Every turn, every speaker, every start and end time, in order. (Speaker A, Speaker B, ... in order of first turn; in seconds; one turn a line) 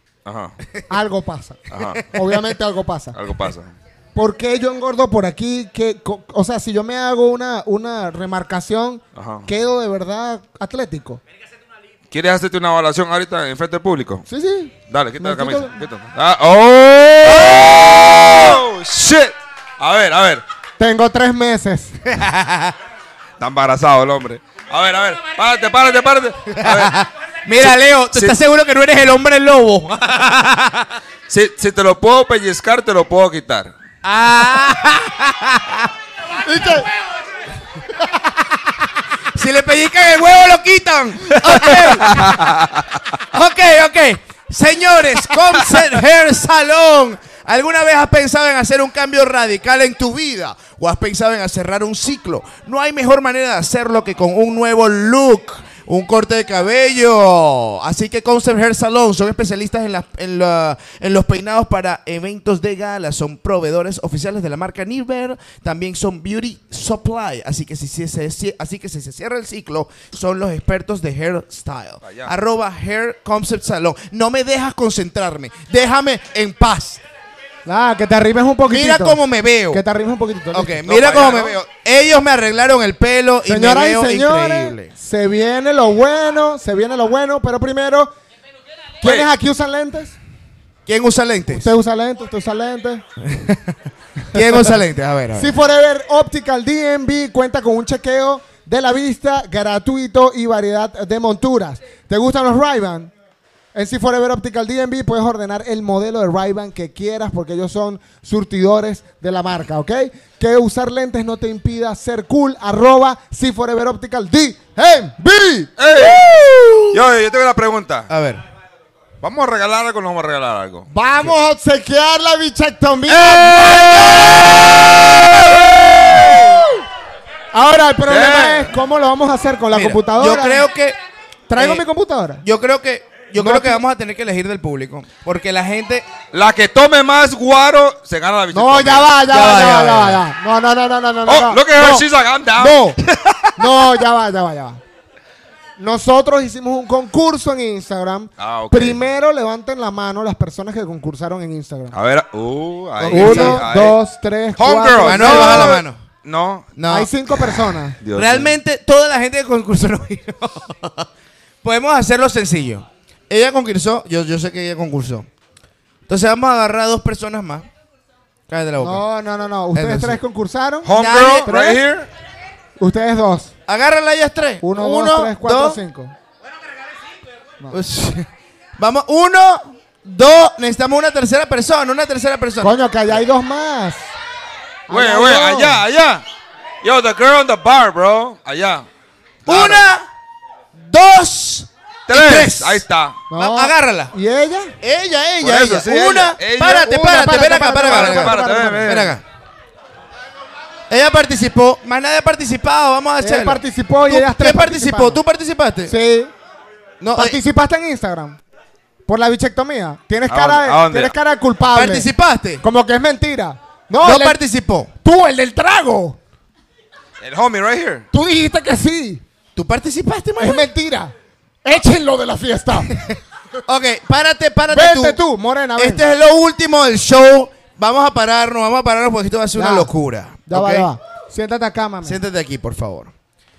Speaker A: 0.2-0.5
Speaker B: 0.9-3.1
Speaker A: 1.7-2.0
Speaker C: 1.7-2.2
Speaker A: 3.1-3.7
Speaker B: 4.1-11.2
Speaker A: 9.1-9.5
Speaker A: 12.1-14.2
Speaker B: 14.3-15.8
Speaker A: 14.9-20.4
Speaker B: 20.8-22.0
Speaker C: 22.1-22.7
Speaker A: 23.4-26.9
Speaker C: 26.6-30.9
Speaker A: 27.6-28.4
Speaker A: 31.3-33.7
Speaker C: 34.0-35.9
Speaker B: 36.4-36.9
Speaker C: 39.3-42.2
Speaker A: 41.4-42.9
Speaker C: 43.3-77.0
Speaker A: 72.0-72.3
Speaker B: 77.7-80.9
Speaker C: 78.7-79.8
Speaker C: 80.5-84.9
Speaker A: 80.8-81.6
Speaker B: 83.4-88.1
Speaker B: 89.0-90.2
Speaker A: 89.0-89.3
Speaker C: 90.8-91.7
Speaker B: 91.5-93.0
Speaker C: 93.2-93.8
Speaker C: 94.3-95.5
Speaker B: 95.3-103.1
Speaker B: 103.7-117.0
Speaker A: 115.8-116.3
Speaker A: 116.9-118.1
Speaker C: 118.1-118.4
Speaker A: 119.2-120.9
Speaker B: 120.9-124.1
Speaker A: 123.1-126.6
Speaker C: 123.4-125.2
Speaker B: 127.5-130.7
Speaker A: 128.0-128.7
Speaker C: 129.7-131.0
Speaker B: 131.5-132.4
Speaker C: 131.6-131.8
Speaker C: 132.4-136.1
Speaker B: 133.3-133.8
Speaker A: 136.3-139.1
Speaker B: 138.5-143.0
Speaker C: 139.2-140.2
Speaker A: 141.2-143.6
Speaker B: 143.6-144.8
Speaker B: 145.8-151.9
Speaker A: 148.4-149.0
Speaker A: 151.9-154.0
Speaker C: 153.0-153.6
Speaker B: 153.1-155.8
Speaker A: 154.6-156.7
Speaker C: 155.0-156.0
Speaker C: 156.7-157.1
Speaker B: 156.9-158.0
Speaker A: 158.0-158.5
Speaker C: 158.1-161.1
Speaker C: 161.6-165.3
Speaker C: 166.1-167.7
Speaker C: 168.5-169.0
Speaker B: 168.8-171.8
Speaker C: 169.7-170.2
Speaker A: 170.8-172.1
Speaker C: 170.9-171.5
Speaker B: 172.8-173.5
Speaker C: 173.7-175.8
Speaker B: 174.6-176.1
Speaker C: 177.7-182.7
Speaker B: 182.6-184.1
Speaker B: 184.9-185.8
Speaker A: 184.9-186.2
Speaker A: 186.8-188.9
Speaker A: 189.4-189.9
Speaker C: 189.4-190.1
Speaker C: 190.8-194.1
Speaker A: 192.1-193.2
Speaker B: 193.3-194.7
Speaker C: 194.8-199.2
Speaker A: 195.4-197.3
Speaker B: 196.8-199.2
Speaker A: 197.8-199.2
Speaker C: 200.9-205.9
Speaker B: 203.2-205.2
Speaker B: 205.8-206.3
Speaker C: 207.0-207.4
Speaker B: 207.1-208.4
Speaker B: 209.1-212.1
Speaker A: 210.3-211.1
Speaker C: 211.7-212.6
Speaker B: 212.6-214.4
Speaker C: 214.0-214.9
Speaker B: 215.0-216.2
Speaker A: 217.2-218.1
Speaker B: 218.1-219.2
Speaker C: 219.5-220.7
Speaker B: 220.4-222.9
Speaker C: 223.7-225.2
Speaker B: 224.7-226.1
Speaker C: 225.8-230.9
Speaker B: 229.5-229.9
Speaker B: 230.4-232.2
Speaker C: 232.0-233.1